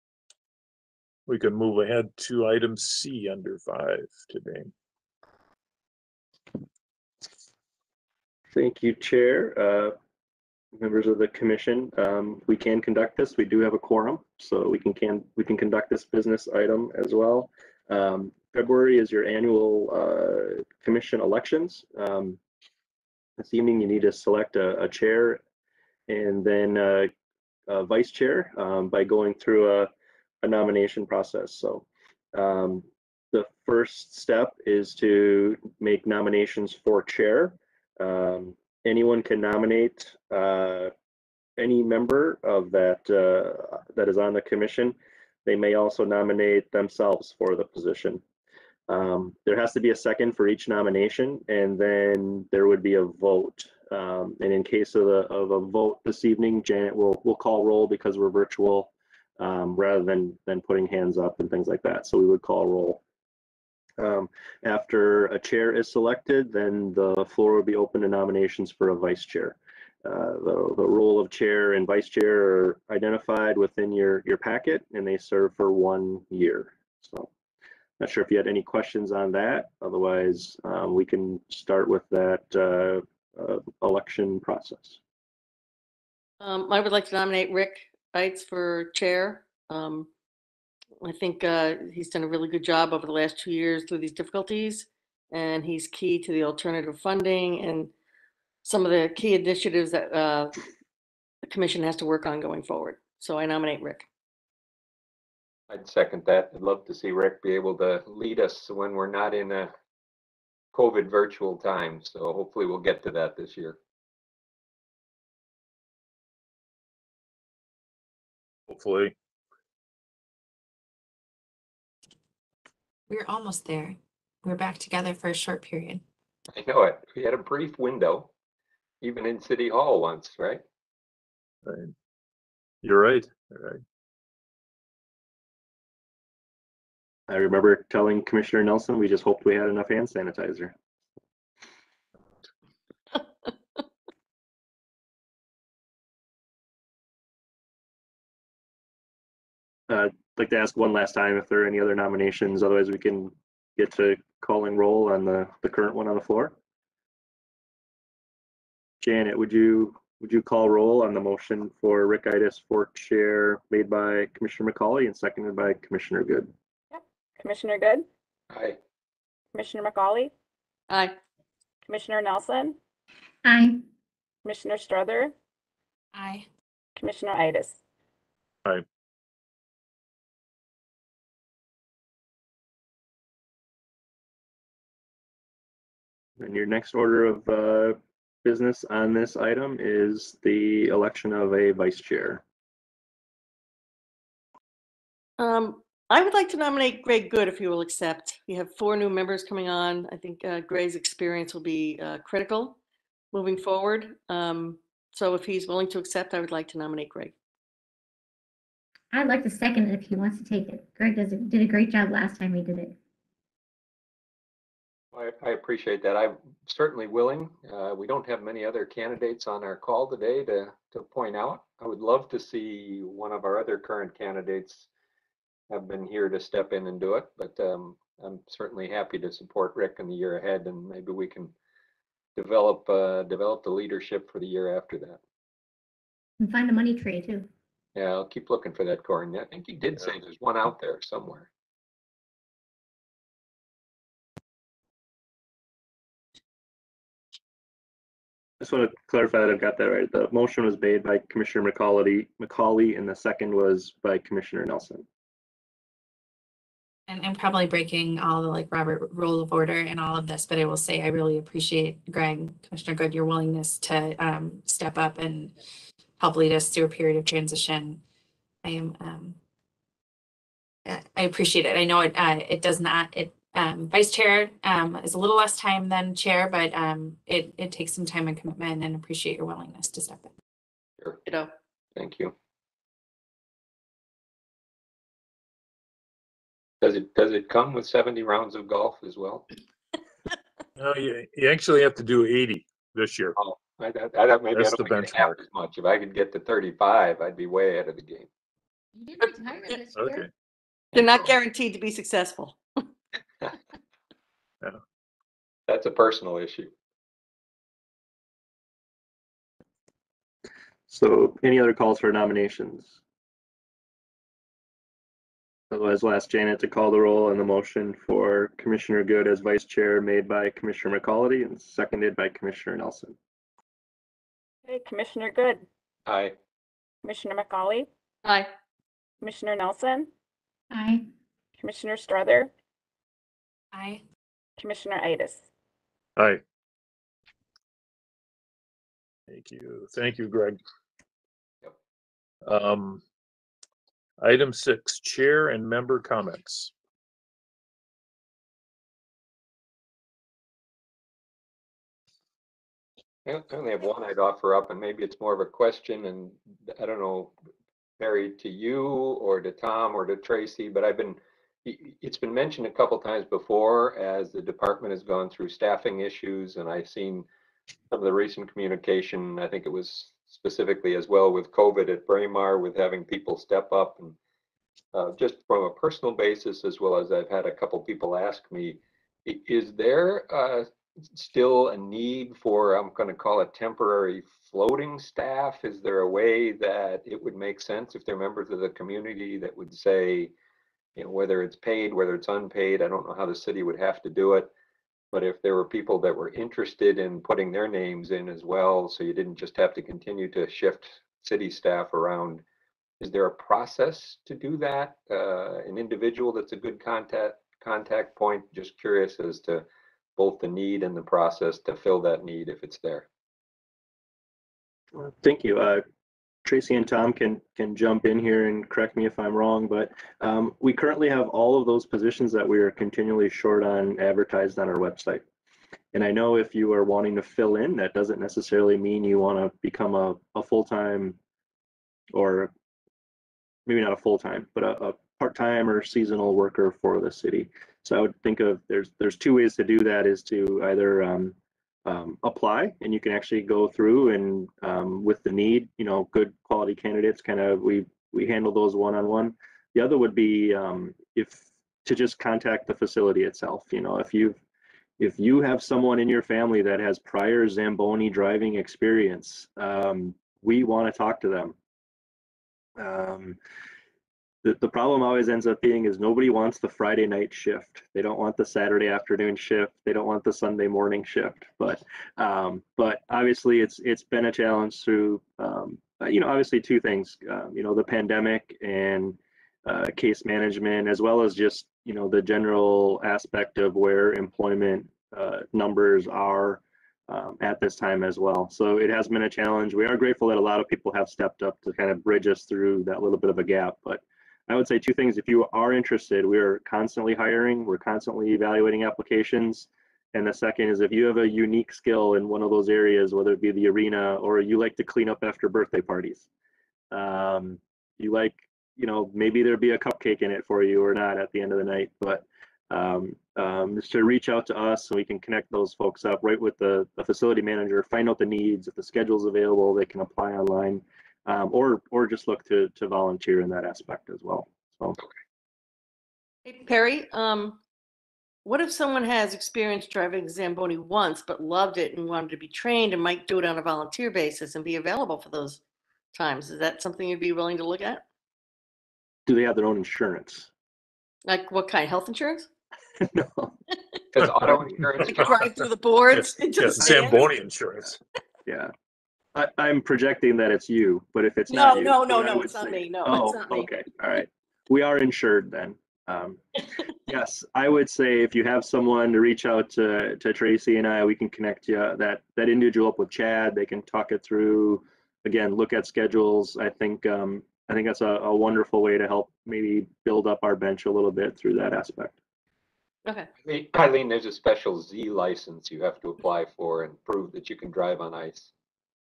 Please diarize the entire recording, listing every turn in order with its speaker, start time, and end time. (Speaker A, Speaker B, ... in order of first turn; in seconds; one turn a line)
Speaker A: 1.3-4.7
Speaker B: 8.5-9.9
Speaker B: 10.8-22.4
Speaker B: 23.4-25.4
Speaker B: 26.1-27.1
Speaker B: 27.7-29.9
Speaker B: 30.4-40.9
Speaker B: 41.6-48.2
Speaker B: 48.9-63.0
Speaker B: 64.0-77.3
Speaker B: 78.0-85.0
Speaker C: 86.4-90.1
Speaker C: 91.0-97.9
Speaker C: 98.6-100.6
Speaker C: 101.4-104.1
Speaker D: 105.7-109.7
Speaker D: 110.7-113.8
Speaker A: 118.7-119.1
Speaker E: 123.1-126.0
Speaker D: 126.5-128.3
Speaker D: 129.0-130.6
Speaker A: 131.6-131.9
Speaker A: 132.8-133.8
Speaker B: 137.3-140.7
Speaker B: 149.9-156.5
Speaker B: 159.0-166.5
Speaker F: 166.9-168.1
Speaker D: 168.5-168.8
Speaker F: 169.5-170.3
Speaker C: 170.9-171.1
Speaker F: 171.9-172.8
Speaker G: 173.4-173.8
Speaker F: 174.4-175.3
Speaker E: 176.1-176.5
Speaker F: 177.0-177.8
Speaker B: 186.4-192.4
Speaker C: 195.4-202.8
Speaker C: 203.3-207.3
Speaker G: 209.1-213.0
Speaker D: 215.1-224.9
Speaker D: 225.7-231.5
Speaker D: 232.3-235.2
Speaker G: 236.4-237.5
Speaker D: 237.9-241.5
Speaker B: 248.6-255.1
Speaker E: 257.1-265.5
Speaker E: 266.2-268.0
Speaker E: 268.6-269.4
Speaker E: 270.9-280.3
Speaker D: 281.9-282.3
Speaker D: 286.8-289.5
Speaker A: 290.8-293.4
Speaker D: 293.4-298.3
Speaker A: 294.5-295.3
Speaker G: 298.9-300.2
Speaker A: 299.9-300.3
Speaker C: 300.9-302.6
Speaker D: 305.7-306.7
Speaker B: 310.9-313.0
Speaker B: 315.7-323.1
Speaker F: 324.6-325.6
Speaker D: 326.1-326.3
Speaker F: 327.0-327.9
Speaker C: 328.2-328.5
Speaker F: 329.2-330.1
Speaker G: 330.7-331.1
Speaker F: 331.6-332.5
Speaker E: 333.7-334.0
Speaker F: 334.6-335.4
Speaker A: 339.3-340.6
Speaker A: 342.4-343.0
Speaker A: 344.2-346.7
Speaker D: 353.2-357.3
Speaker D: 358.0-367.2
Speaker D: 367.9-374.2
Speaker D: 374.9-390.3
Speaker D: 390.9-394.5
Speaker D: 395.1-402.4
Speaker D: 403.0-413.1
Speaker B: 414.9-415.8
Speaker B: 416.4-425.2
Speaker B: 425.9-431.2
Speaker B: 432.1-432.5
Speaker B: 433.6-441.3
Speaker B: 441.9-454.4
Speaker B: 455.0-461.6
Speaker B: 462.8-463.4
Speaker B: 464.4-506.3
Speaker B: 506.9-525.0
Speaker C: 526.4-527.6
Speaker C: 528.4-535.6
Speaker C: 536.1-538.0
Speaker B: 539.2-540.5
Speaker C: 541.3-542.5
Speaker B: 543.0-543.5
Speaker D: 544.1-545.3
Speaker C: 545.0-547.4
Speaker A: 546.1-548.0
Speaker B: 546.8-547.1
Speaker B: 548.5-548.7
Speaker B: 549.3-556.4
Speaker C: 551.5-553.7
Speaker B: 557.0-572.1
Speaker D: 573.4-578.5